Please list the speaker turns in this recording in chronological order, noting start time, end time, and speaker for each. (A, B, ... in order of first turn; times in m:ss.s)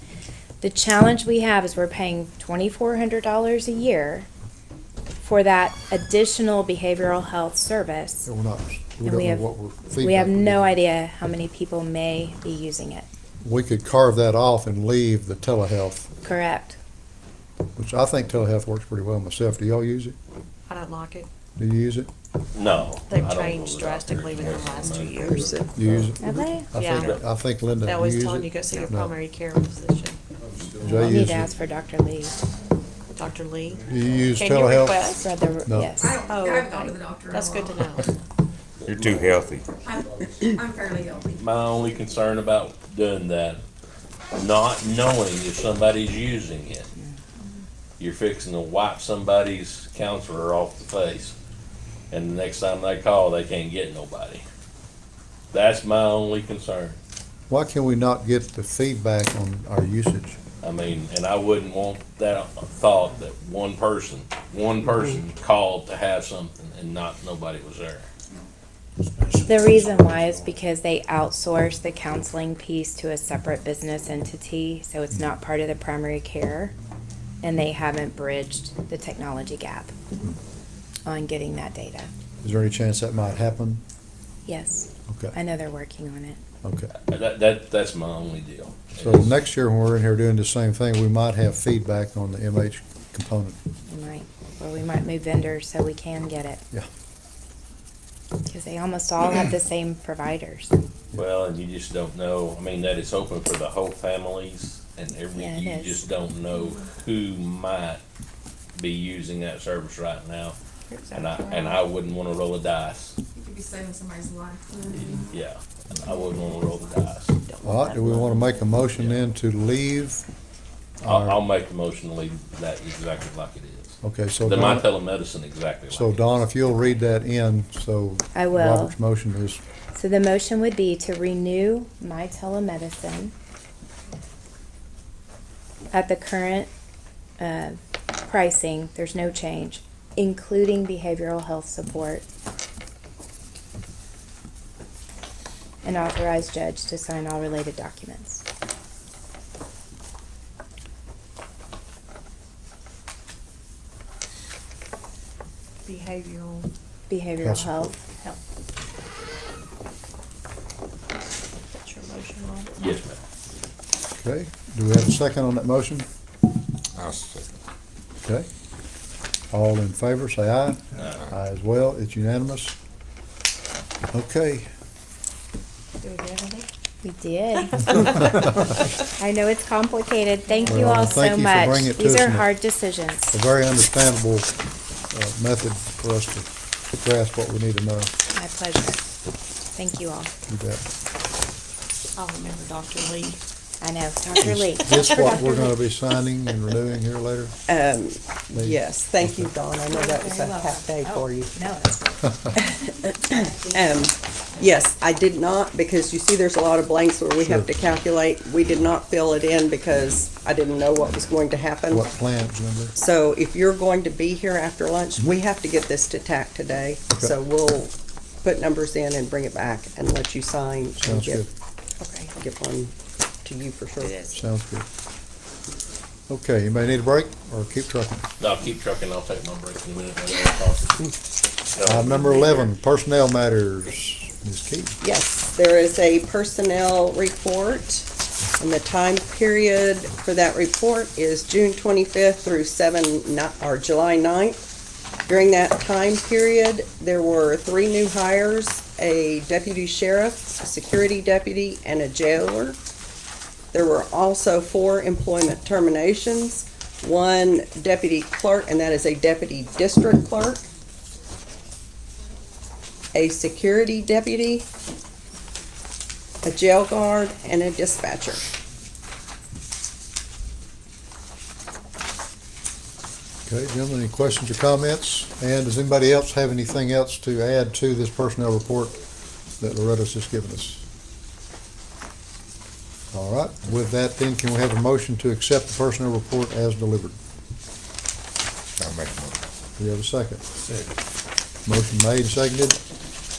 0:00.6-0:04.3 A
0:05.2-0:08.3 A
0:08.3-0:10.8 B
0:09.0-0:09.5 A
0:10.0-0:13.1 A
0:13.4-0:16.1 B
0:16.2-0:16.8 A
0:17.8-0:20.2 B
0:20.7-0:21.3 C
0:21.6-0:22.1 B
0:22.5-0:26.1 D
0:23.1-0:25.6 C
0:25.2-0:25.8 E
0:25.7-0:29.1 B
0:26.2-0:26.7 A
0:26.7-0:27.2 C
0:26.8-0:27.2 D
0:27.8-0:30.2 C
0:30.8-0:31.5 B
0:30.8-0:32.4 A
0:33.2-0:35.2 C
0:33.9-0:35.1 B
0:35.1-0:36.2 A
0:35.6-0:36.1 B
0:36.0-0:38.1 F
0:36.3-0:38.1 C
0:38.8-0:39.7 G
0:38.9-0:39.3 D
0:39.8-0:41.5 F
0:41.4-0:43.6 D
0:44.3-0:46.9 D
0:48.0-0:51.4 D
0:52.1-0:54.4 D
0:55.5-0:57.0 D
0:57.5-1:00.4 B
1:00.6-1:08.1 D
1:09.4-1:16.8 A
1:09.5-1:09.9 B
1:17.4-1:20.0 A
1:21.1-1:22.1 A
1:22.4-1:23.8 B
1:24.5-1:26.4 A
1:25.1-1:25.4 B
1:26.6-1:26.9 B
1:27.1-1:29.3 D
1:29.0-1:33.6 B
1:33.9-1:36.6 A
1:38.4-1:40.7 A
1:41.1-1:48.0 D
1:45.4-1:46.0 A
1:48.8-1:50.6 D
1:50.9-1:51.8 C
1:51.1-1:53.2 D
1:53.4-1:55.3 F
1:55.0-1:57.4 D
1:57.4-1:58.7 C
1:57.6-2:00.2 B
1:59.0-1:59.2 D
2:01.0-2:01.4 B
2:01.1-2:06.5 D
2:04.0-2:04.9 B
2:05.9-2:09.6 B
2:08.4-2:09.0 A
2:09.9-2:13.3 A
2:15.9-2:16.7 A
2:17.4-2:22.3 A
2:25.8-2:28.4 A
2:35.8-2:36.7 C
2:37.1-2:38.0 A
2:37.4-2:37.9 B
2:38.1-2:38.4 C
2:41.7-2:42.7 C
2:42.8-2:43.2 D
2:44.2-2:46.1 B
2:47.0-2:47.6 G
2:49.5-2:52.8 B
2:54.1-2:54.7 B
2:56.0-2:56.7 C
2:57.0-2:58.3 A
2:57.9-2:58.2 C
2:59.2-3:03.3 A
3:00.5-3:01.0 C
3:00.6-3:02.5 B
3:03.3-3:04.5 B
3:05.1-3:08.1 B
3:08.3-3:09.0 A
3:09.7-3:10.3 A
3:10.5-3:10.8 B
3:12.2-3:13.4 C
3:13.8-3:15.8 A
3:14.4-3:17.5 B
3:17.7-3:21.5 E
3:18.5-3:19.5 B
3:19.9-3:22.9 A
3:22.6-3:32.1 E
3:27.4-3:27.7 B
3:31.9-3:33.0 B
3:33.0-3:41.5 E
3:41.0-3:41.5 B
3:42.0-3:42.3 C
3:42.4-3:44.2 E
3:44.0-3:44.4 C
3:44.3-3:44.9 B
3:46.3-3:48.3 B
3:48.4-3:51.1 D
3:51.7-3:52.7 D
3:51.8-3:55.0 B
3:55.0-3:58.1 E
3:58.6-4:04.6 E
4:05.3-4:12.8 E
4:13.7-4:20.7 E
4:23.1-4:24.7 E
4:26.4-4:28.5 E
4:33.5-4:39.0 B
4:39.6-4:40.8 B
4:43.1-4:47.2 B
4:48.8-4:49.4 G
4:49.8-4:50.4 B
4:51.7-4:52.8 B